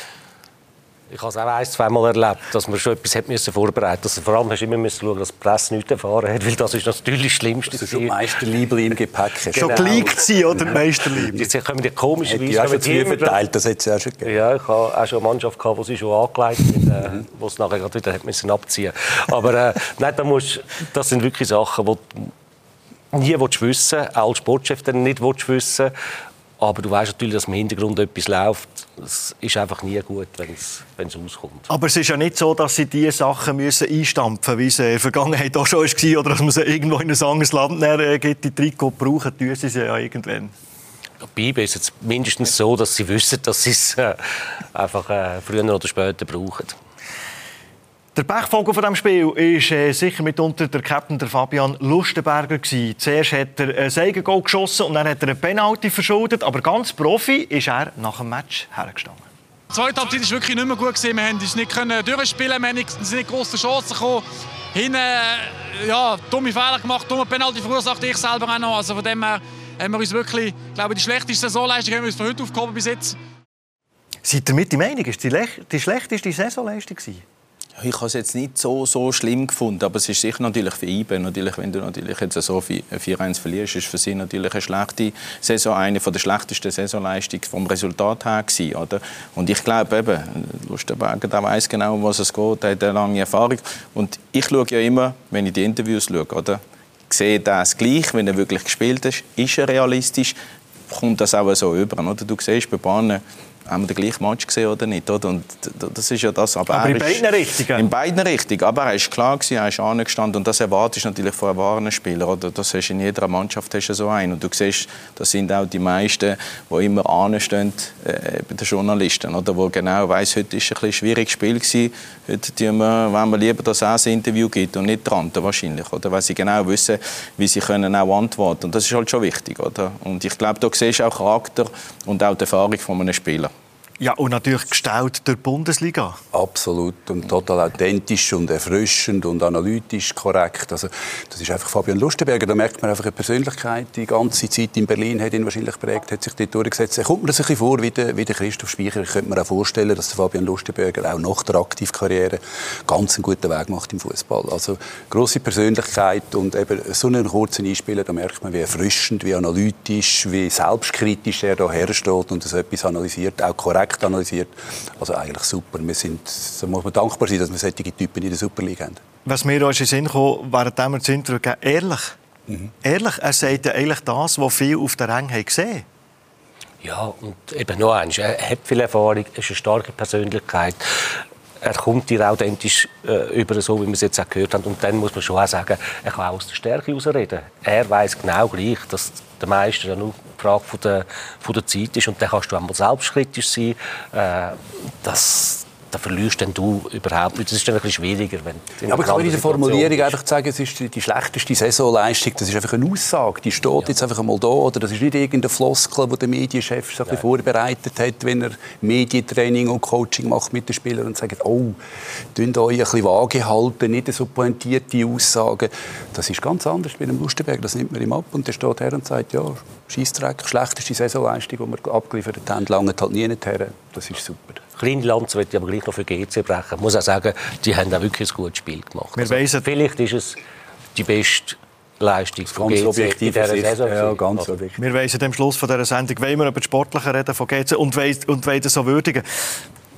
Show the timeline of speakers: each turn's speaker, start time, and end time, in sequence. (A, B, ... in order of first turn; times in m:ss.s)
0:01.1-0:08.2 A
0:07.7-0:10.8 B
0:09.6-0:10.1 A
0:09.6-0:11.5 C
0:11.3-0:13.4 A
0:12.2-0:14.3 B
0:14.2-0:22.3 A
0:23.1-0:25.9 A
0:26.6-0:31.7 A
0:31.7-0:40.5 C
0:41.2-0:46.8 A
0:48.1-0:59.2 C
0:59.7-1:13.2 D
1:14.2-1:17.2 C
1:17.8-1:40.4 E
1:40.9-2:13.5 E
1:46.7-1:47.9 C
2:14.0-2:16.2 C
2:16.3-2:49.0 B
2:49.2-2:52.1 C
2:52.8-2:55.8 C
2:56.8-3:20.2 A
3:18.8-3:31.8 B
3:32.3-3:44.6 B
3:44.8-3:50.4 A
3:49.2-3:49.6 C
3:50.9-3:54.4 A
3:52.4-3:54.8 B
3:54.8-3:59.2 C